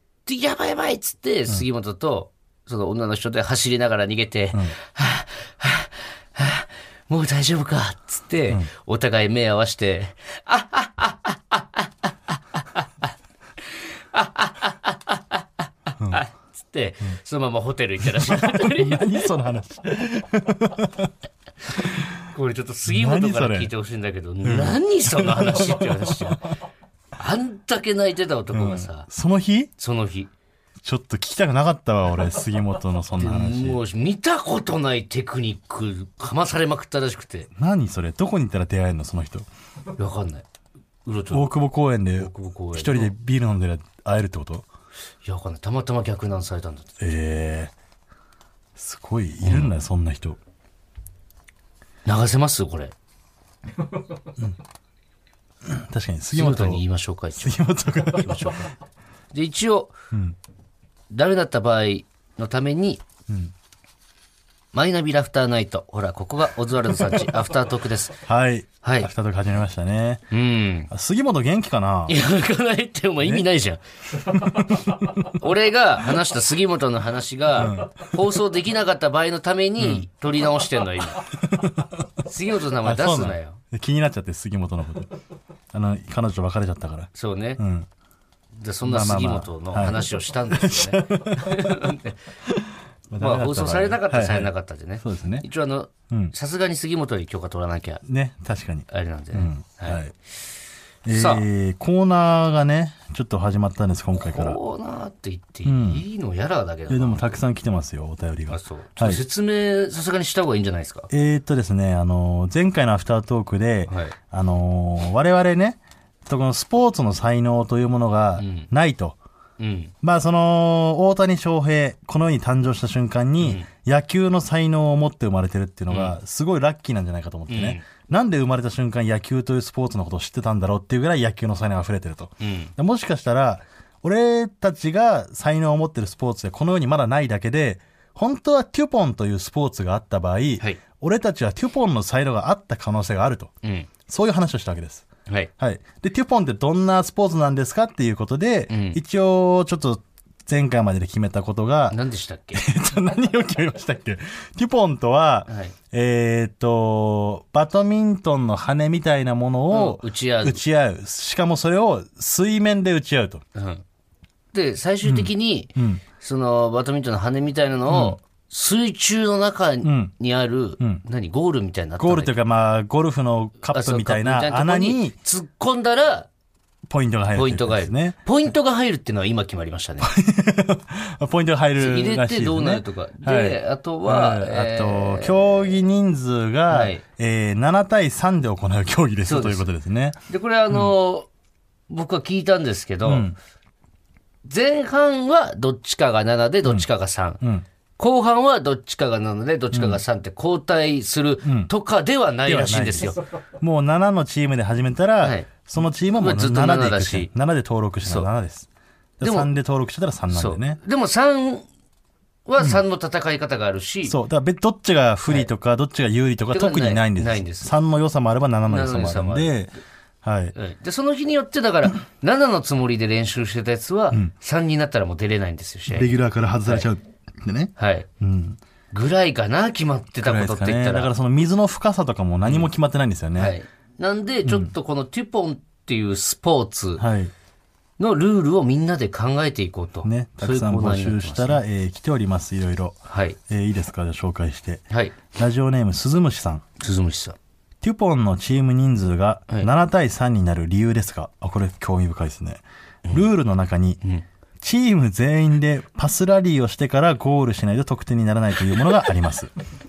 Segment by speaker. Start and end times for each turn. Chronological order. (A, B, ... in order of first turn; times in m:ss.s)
0:00.2-0:13.0 A
0:13.6-0:15.4 A
0:16.1-0:19.3 A
0:18.0-0:21.1 B
0:21.8-0:22.1 B
0:22.3-0:26.6 A
0:22.8-0:23.7 B
0:24.4-0:26.4 B
0:27.2-0:29.1 A
0:28.5-0:29.7 B
0:29.8-0:30.3 A
0:30.8-0:33.8 B
0:33.2-0:37.5 A
0:37.6-0:39.4 B
0:40.0-0:40.4 A
0:41.0-0:41.6 A
0:41.3-0:44.6 B
0:42.2-0:43.1 A
0:45.2-0:47.0 A
0:47.0-0:47.7 B
0:48.8-0:50.4 B
0:49.4-0:49.7 A
0:52.0-0:52.9 A
0:55.6-0:56.8 B
0:56.3-0:58.7 A
0:57.4-0:58.7 B
0:59.3-0:59.9 A
1:00.1-1:00.4 B
1:01.1-1:03.0 A
1:04.7-1:08.2 A
1:08.2-1:10.2 B
1:08.8-1:09.1 A
1:10.3-1:10.9 A
1:10.9-1:12.2 B
1:12.1-1:14.6 A
1:13.2-1:13.5 B
1:14.3-1:15.2 B
1:15.2-1:21.3 A
1:17.6-1:18.0 B
1:19.8-1:20.1 B
1:21.2-1:22.1 B
1:22.2-1:23.6 A
1:22.7-1:25.1 B
1:25.7-1:27.9 B
1:27.1-1:27.6 A
1:28.6-1:32.2 A
1:28.8-1:31.9 B
1:32.4-1:35.4 B
1:33.2-1:38.0 A
1:38.0-1:40.1 B
1:38.9-1:40.0 A
1:41.0-1:44.6 B
1:41.1-1:41.4 A
1:44.1-1:47.4 A
1:45.6-1:46.0 B
1:46.9-1:49.2 B
1:48.5-1:51.1 A
1:51.1-1:59.2 B
1:53.9-1:54.1 A
1:58.4-1:58.7 A
1:59.6-1:59.9 A
2:00.0-2:23.5 B
2:03.4-2:03.7 A
2:05.9-2:06.2 A
2:07.5-2:07.8 A
2:12.4-2:12.7 A
2:23.6-2:23.9 A
2:24.1-2:25.1 B
2:25.6-2:32.0 B
2:28.7-2:29.0 A
2:31.9-2:32.6 A
2:32.5-2:43.4 B
2:35.5-2:35.7 A
2:39.7-2:40.6 A
2:43.5-2:43.8 A
2:44.5-2:52.3 A
2:45.0-2:46.0 B
2:47.9-2:48.2 B
2:49.8-2:50.1 B
2:52.0-2:55.1 B
2:53.7-2:56.3 A
2:56.9-2:58.2 B
2:57.3-3:00.1 A
3:00.0-3:10.2 B
3:01.8-3:05.6 A
3:06.7-3:07.0 A
3:09.2-3:09.7 A
3:10.3-3:11.3 A
3:11.9-3:13.3 A
3:13.0-3:13.4 B
3:14.4-3:17.4 A
3:17.4-3:17.6 B
3:18.0-3:23.2 A
3:19.7-3:20.0 B
3:21.4-3:21.7 B
3:22.4-3:28.7 B
3:25.2-3:25.5 A
3:26.2-3:27.3 A
3:29.2-3:30.8 B
3:29.2-3:29.5 A
3:30.3-3:31.6 A
3:32.4-3:34.2 A
3:34.0-3:39.7 B
3:36.5-3:37.7 A
3:38.7-3:39.6 A
3:40.2-3:40.5 B
3:40.5-3:46.9 A
3:45.9-3:48.6 B
3:47.8-3:48.0 A
3:48.9-3:51.1 A
3:50.2-3:53.6 B
3:53.4-3:57.0 A
3:54.4-3:54.7 B
3:57.0-3:57.3 B
3:58.0-4:01.6 A
4:00.0-4:03.0 B
4:03.1-4:03.4 A
4:03.5-4:06.6 B
4:04.9-4:05.2 A
4:06.8-4:07.4 A
4:07.8-4:14.0 B
4:14.6-4:19.5 B